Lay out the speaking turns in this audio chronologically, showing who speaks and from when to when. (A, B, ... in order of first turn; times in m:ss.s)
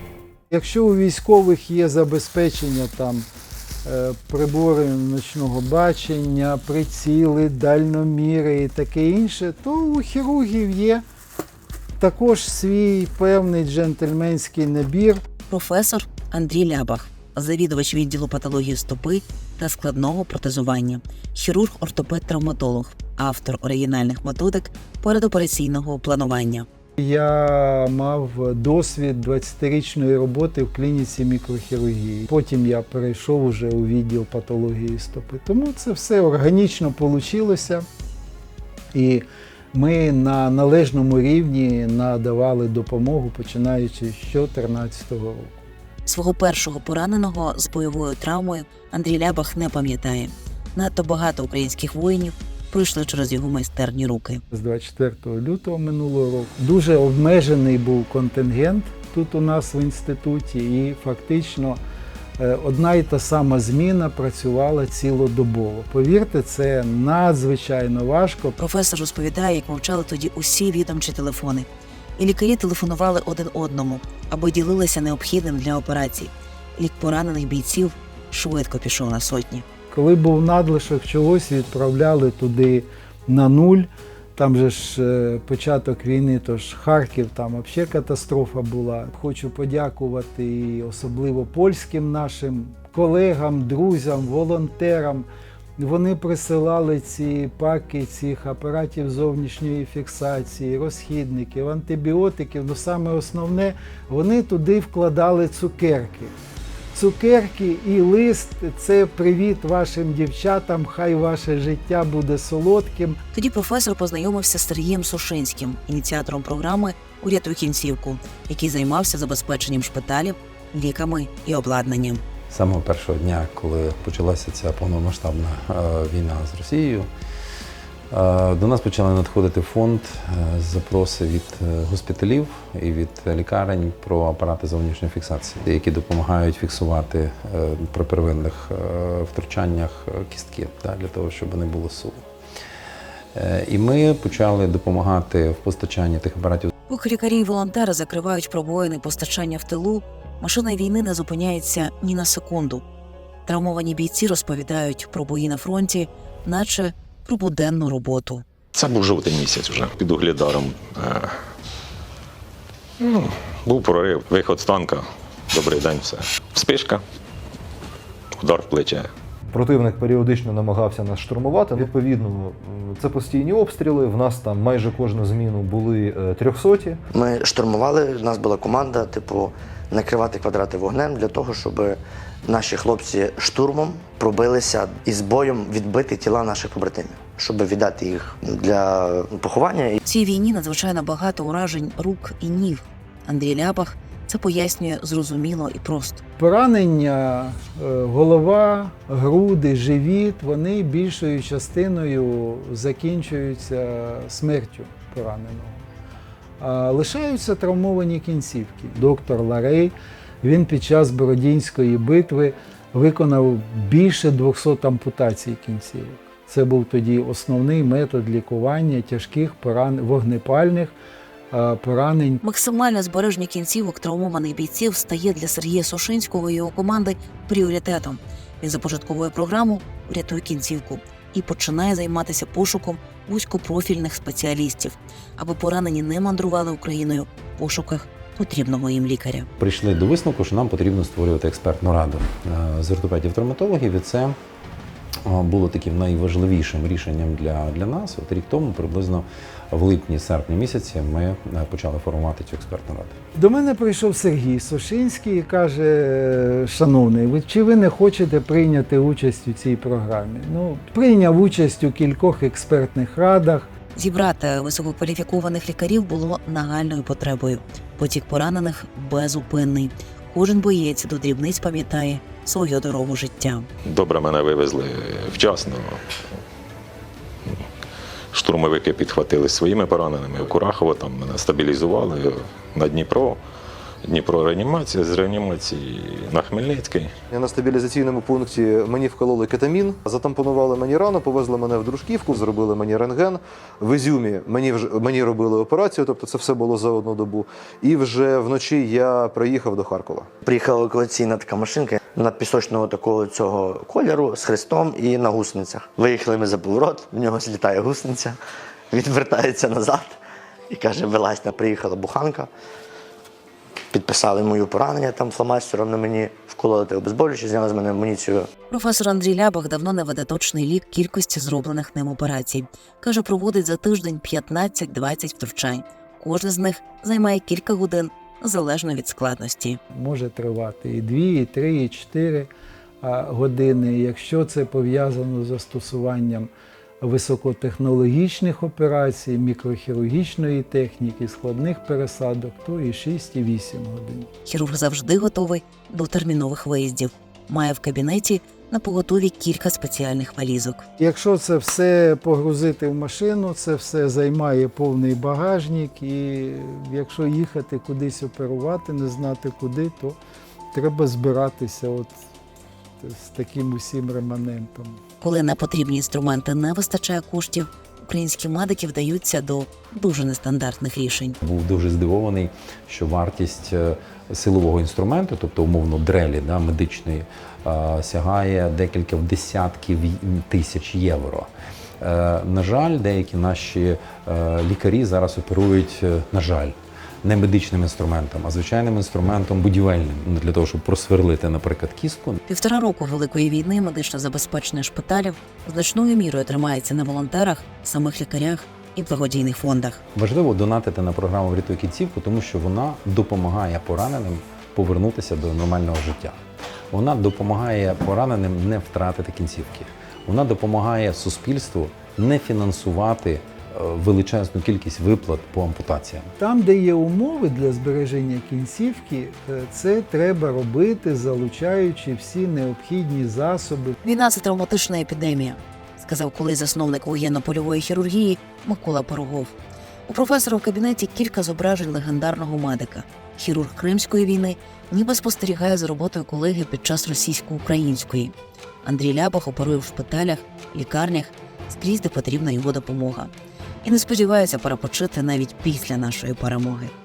0:00.5-0:03.2 A
0:03.8-0:11.0 A
0:12.0-0:15.3 A
0:15.4-0:26.7 B
0:27.0-0:37.8 A
0:38.9-0:45.6 A
0:46.0-0:54.4 B
0:54.5-1:01.8 A
1:02.4-1:08.6 A
1:08.6-1:11.6 B
1:12.2-1:19.6 B
1:19.9-1:35.3 A
1:35.8-1:46.3 A
1:46.9-1:53.2 A
1:53.3-2:02.2 B
2:02.5-2:07.1 C
2:08.1-2:22.2 C
2:23.3-2:26.7 C
2:26.9-2:32.8 B
2:33.5-2:38.4 B
2:38.7-2:41.3 D
2:43.0-2:47.0 D
2:48.4-2:49.1 D
2:49.5-2:57.0 E
2:57.1-3:10.0 F
3:10.0-3:16.2 B
3:16.4-3:25.8 A
3:26.6-3:40.9 A
3:41.5-3:42.4 A
3:42.4-3:59.5 B
3:59.6-4:04.4 C
4:05.2-4:13.1 C
4:13.4-4:23.7 A
4:23.9-4:33.7 B
4:33.9-4:36.0 D
4:38.3-4:43.4 D
4:44.0-4:47.1 D
4:47.3-5:00.3 E
5:00.4-5:10.2 F
5:10.7-5:12.5 F
5:13.9-5:18.5 F
5:18.7-5:29.8 B
5:29.9-5:32.5 A
5:33.0-5:36.5 A
5:37.0-5:44.3 A
5:44.4-5:50.8 B
5:51.0-6:00.2 A
6:00.7-6:02.1 A
6:03.0-6:05.0 A
6:05.2-6:11.4 B
6:11.4-6:21.5 C
6:22.0-6:32.4 C
6:32.5-6:40.0 B
6:40.1-6:46.4 C
6:46.9-6:56.3 C
6:56.4-7:04.0 A
7:04.0-7:09.5 B
7:10.1-7:18.3 B
7:18.8-7:23.3 B
7:23.8-7:26.9 B